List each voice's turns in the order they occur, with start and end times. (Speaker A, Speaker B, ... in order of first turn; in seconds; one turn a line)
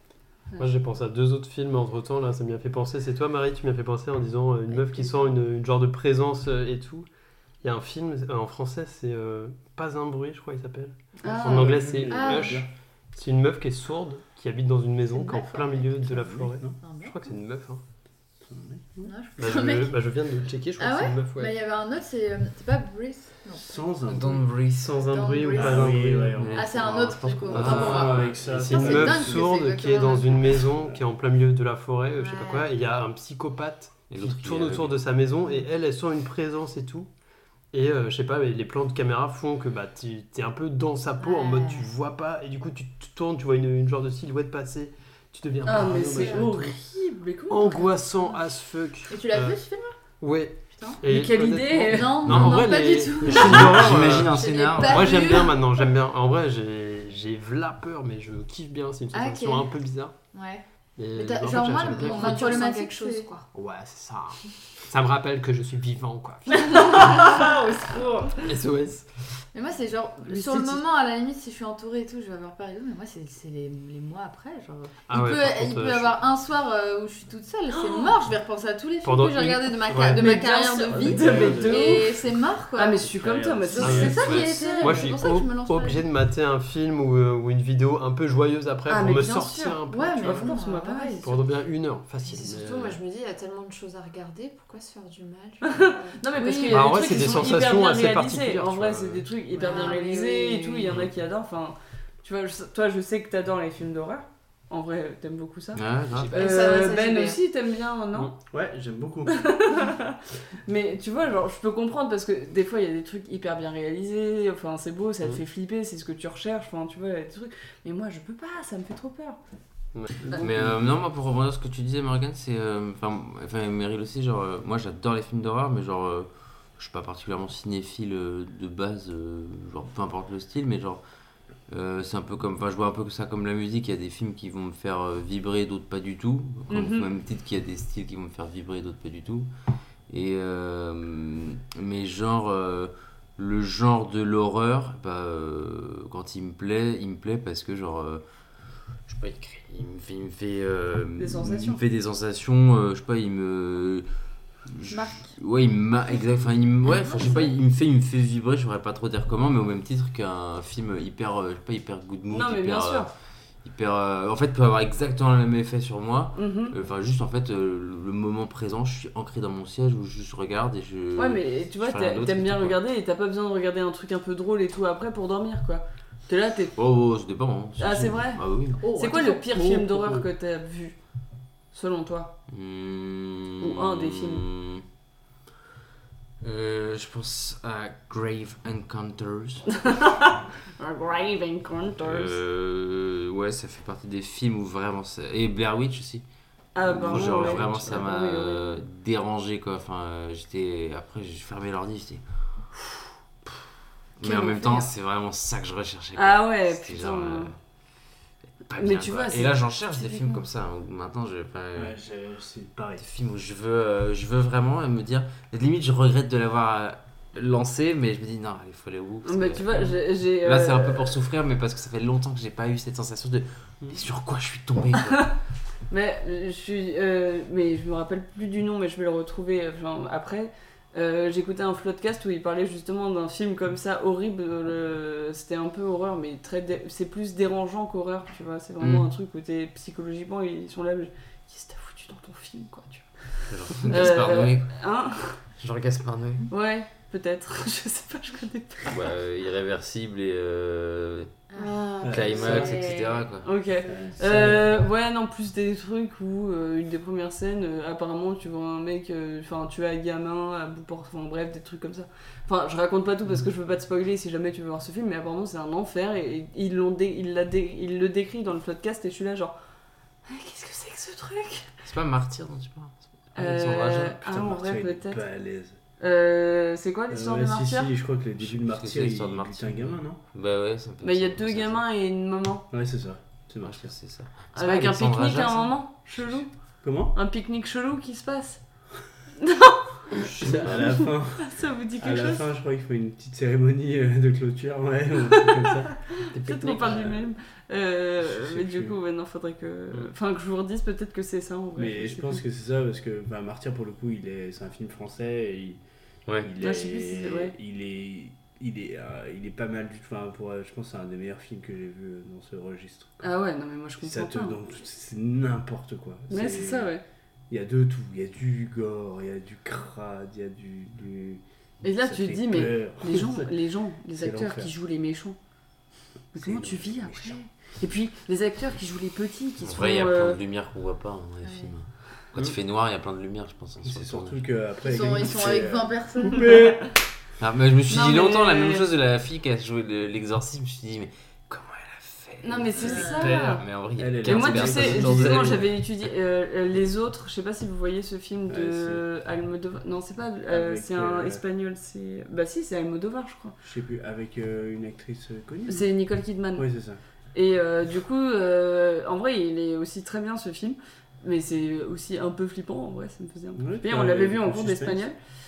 Speaker A: 0.6-7.1
Speaker B: 4.7-5.3
Speaker A: 7.6-17.8
Speaker C: 11.2-11.9
Speaker D: 11.2-12.7
Speaker B: 12.1-12.7
Speaker B: 15.1-17.4
Speaker D: 16.4-16.8
Speaker D: 18.4-18.9
Speaker B: 19.0-20.0
Speaker A: 19.4-21.6
Speaker B: 20.8-23.9
Speaker D: 23.6-24.4
Speaker E: 24.1-24.9
Speaker A: 24.7-26.6
Speaker B: 25.0-30.7
Speaker D: 25.5-26.9
Speaker E: 26.4-28.4
Speaker D: 27.5-29.5
Speaker A: 27.6-37.1
Speaker B: 32.2-32.7
Speaker E: 34.1-35.0
Speaker A: 37.7-46.7
Speaker B: 41.2-41.9
Speaker C: 45.6-47.9
Speaker B: 46.1-46.5
Speaker A: 47.5-49.6
Speaker B: 49.1-49.9
Speaker A: 50.2-60.2
Speaker B: 50.7-51.0
Speaker C: 51.0-52.3
Speaker B: 51.9-55.7
Speaker E: 52.2-55.3
Speaker B: 59.1-63.4
Speaker A: 61.0-62.5
Speaker F: 61.7-63.5
Speaker A: 63.5-67.3
Speaker C: 66.6-68.2
Speaker B: 67.2-68.2
Speaker A: 68.4-69.2
Speaker B: 69.5-83.0
Speaker A: 75.1-76.2
Speaker A: 79.0-80.3
Speaker C: 80.1-82.2
Speaker D: 80.9-82.3
Speaker C: 82.7-85.0
Speaker D: 83.0-84.4
Speaker B: 83.7-86.0
Speaker A: 83.8-90.6
Speaker F: 84.5-84.9
Speaker C: 88.9-91.2
Speaker B: 89.9-91.3
Speaker A: 91.2-93.0
Speaker F: 92.3-96.7
Speaker C: 95.6-108.3
Speaker B: 96.4-97.3
Speaker A: 96.7-99.3
Speaker B: 99.6-100.2
Speaker F: 99.6-101.0
Speaker E: 105.7-106.4
Speaker B: 106.2-107.4
Speaker D: 108.5-109.5
Speaker C: 109.3-119.4
Speaker A: 119.9-120.4
Speaker C: 120.2-120.6
Speaker E: 120.3-131.0
Speaker E: 131.7-139.5
Speaker C: 136.7-137.1
Speaker E: 140.1-148.2
Speaker E: 149.1-154.1
Speaker C: 151.2-151.8
Speaker E: 154.6-163.1
Speaker C: 162.3-163.1
Speaker E: 163.6-172.8
Speaker C: 166.3-166.7
Speaker C: 171.2-176.8
Speaker E: 176.8-178.8
Speaker C: 177.8-180.9
Speaker B: 178.8-179.7
Speaker C: 181.7-182.3
Speaker E: 182.5-184.8
Speaker C: 183.6-184.4
Speaker E: 186.4-190.1
Speaker C: 189.9-192.4
Speaker E: 192.0-202.2
Speaker C: 196.7-198.8
Speaker A: 196.9-197.9
Speaker E: 204.2-207.6
Speaker C: 204.2-204.9
Speaker C: 206.2-207.5
Speaker E: 208.7-211.9
Speaker C: 208.8-210.4
Speaker D: 211.7-213.0
Speaker E: 213.0-225.3
Speaker C: 219.2-221.2
Speaker C: 225.9-245.4
Speaker E: 238.8-239.1
Speaker E: 243.5-244.8
Speaker E: 245.4-246.5
Speaker C: 246.5-249.0
Speaker E: 248.9-251.4
Speaker B: 251.5-252.1
Speaker F: 251.6-253.3
Speaker D: 252.0-252.8
Speaker E: 252.1-253.5
Speaker C: 253.4-269.6
Speaker D: 253.9-254.8
Speaker C: 270.3-271.7
Speaker E: 271.8-274.1
Speaker C: 273.4-275.2
Speaker D: 273.8-275.8
Speaker C: 276.0-277.9
Speaker D: 277.1-280.2
Speaker E: 278.4-281.8
Speaker C: 281.0-282.6
Speaker D: 282.7-283.9
Speaker E: 283.6-285.8
Speaker C: 284.5-288.6
Speaker D: 286.2-287.1
Speaker C: 289.4-292.4
Speaker A: 290.4-290.9
Speaker D: 290.4-296.0
Speaker A: 296.3-297.1
Speaker C: 296.4-302.4
Speaker D: 296.7-297.2
Speaker D: 298.2-299.0
Speaker D: 301.8-305.8
Speaker D: 306.4-313.2
Speaker C: 306.6-307.6
Speaker C: 313.2-314.6
Speaker D: 314.0-316.9
Speaker C: 316.3-317.0
Speaker D: 317.5-323.5
Speaker C: 321.8-325.4
Speaker D: 324.1-324.7
Speaker C: 326.3-330.4
Speaker D: 326.4-327.4
Speaker E: 329.6-334.4
Speaker B: 331.4-331.7
Speaker D: 333.8-336.9
Speaker B: 334.8-336.7
Speaker E: 337.4-345.8
Speaker C: 337.9-338.9
Speaker C: 342.4-343.6
Speaker B: 342.8-343.5
Speaker D: 344.0-345.7
Speaker C: 344.2-353.6
Speaker D: 348.5-349.0
Speaker D: 350.5-351.4
Speaker D: 353.6-355.9
Speaker C: 355.7-356.7
Speaker D: 356.6-357.0
Speaker C: 357.3-365.2
Speaker D: 363.6-365.1